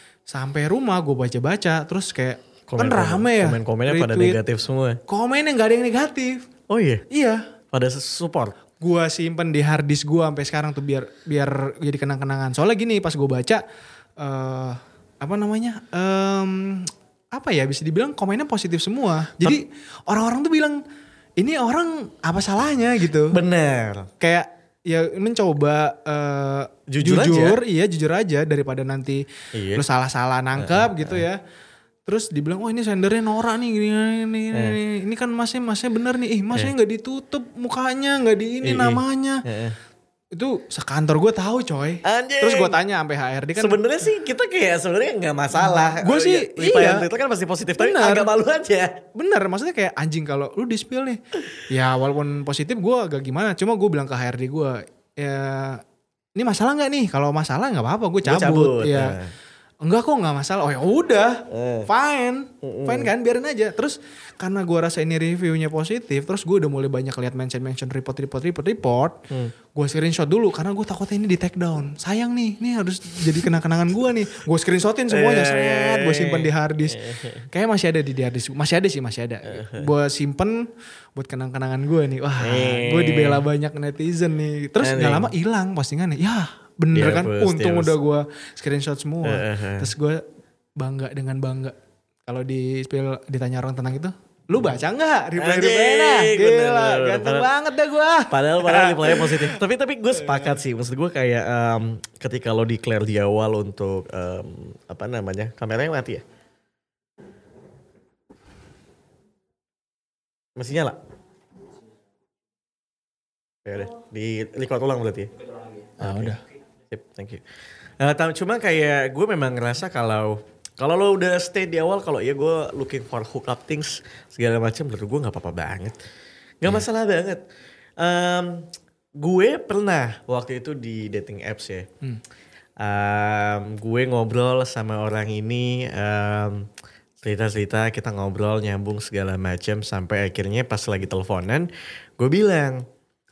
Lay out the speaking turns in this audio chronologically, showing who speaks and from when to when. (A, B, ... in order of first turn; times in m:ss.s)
0:00.3-0:04.4 A
0:02.7-0:05.0 B
0:05.1-0:06.4 A
0:06.7-0:07.0 B
0:07.1-0:07.4 A
0:07.7-0:08.6 B
0:08.8-0:13.6 A
0:14.2-0:20.8 A
0:21.4-0:23.4 A
0:23.3-0:24.1 B
0:24.2-0:31.4 A
0:26.9-0:27.6 B
0:29.5-0:29.8 B
0:30.6-0:31.2 B
0:32.1-0:39.4 A
0:34.5-0:34.8 B
0:38.6-0:39.8 B
0:40.3-0:43.8 A
0:42.0-0:42.8 B
0:43.6-0:49.0 B
0:45.6-0:47.1 A
0:47.8-0:48.3 A
0:49.1-0:55.8 A
0:56.4-0:59.2 A
0:58.2-0:59.3 B
0:59.8-1:30.2 A
1:01.5-1:01.9 B
1:02.6-1:03.1 B
1:15.1-1:17.4 B
1:19.5-1:19.9 B
1:22.4-1:23.4 B
1:24.8-1:25.3 B
1:26.9-1:28.0 B
1:29.2-1:29.9 B
1:30.8-1:39.6 A
1:35.4-1:37.5 B
1:38.3-1:46.2 B
1:40.2-1:40.5 A
1:50.6-1:51.0 B
1:53.6-1:55.3 B
1:56.0-1:56.4 A
1:56.0-1:56.4 B
1:56.9-1:57.4 B
1:58.0-2:06.0 B
2:06.6-2:07.4 B
2:08.0-2:11.9 B
2:12.8-2:16.7 B
2:17.2-2:22.9 B